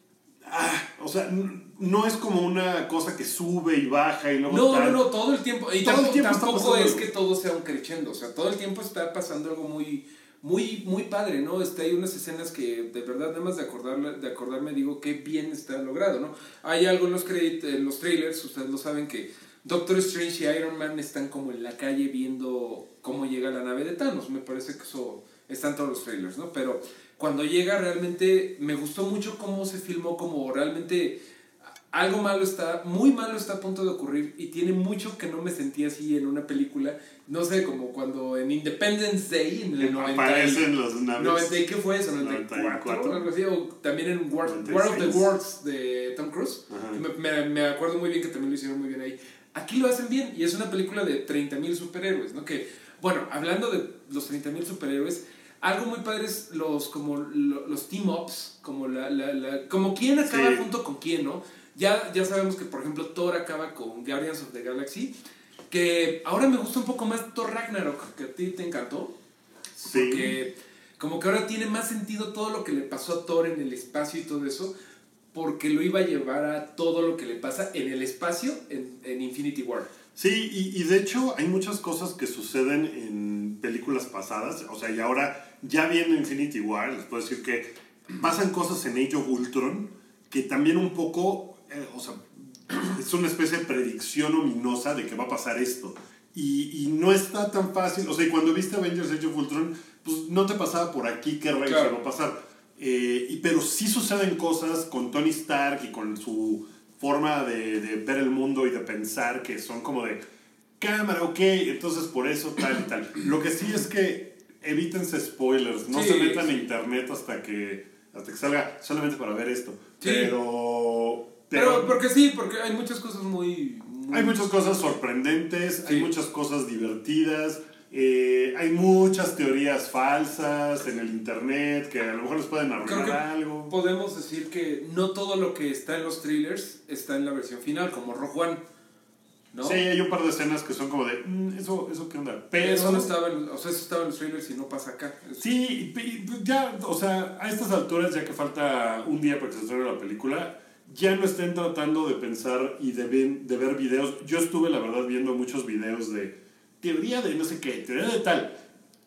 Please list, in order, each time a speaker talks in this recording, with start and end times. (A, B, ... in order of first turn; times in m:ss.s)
0:00.4-0:05.0 A
0:04.5-0:31.2 B
0:05.8-0:07.1 A
0:31.9-1:05.1 B
0:39.8-0:41.6 A
0:42.2-0:43.3 A
0:44.4-0:45.3 A
0:46.7-0:47.0 A
1:00.2-1:00.6 A
1:05.7-1:09.1 B
1:09.8-1:10.4 A
1:09.8-1:14.7 B
1:15.3-1:19.9 B
1:20.2-1:50.2 A
1:41.7-1:41.9 B
1:50.8-2:01.9 A
1:55.9-1:56.4 B
2:00.0-2:00.4 B
2:01.5-2:04.4 B
2:04.1-2:13.7 A
2:12.8-2:18.6 B
2:19.5-2:19.8 B
2:19.6-2:23.1 A
2:22.6-2:25.4 B
2:25.4-2:38.6 A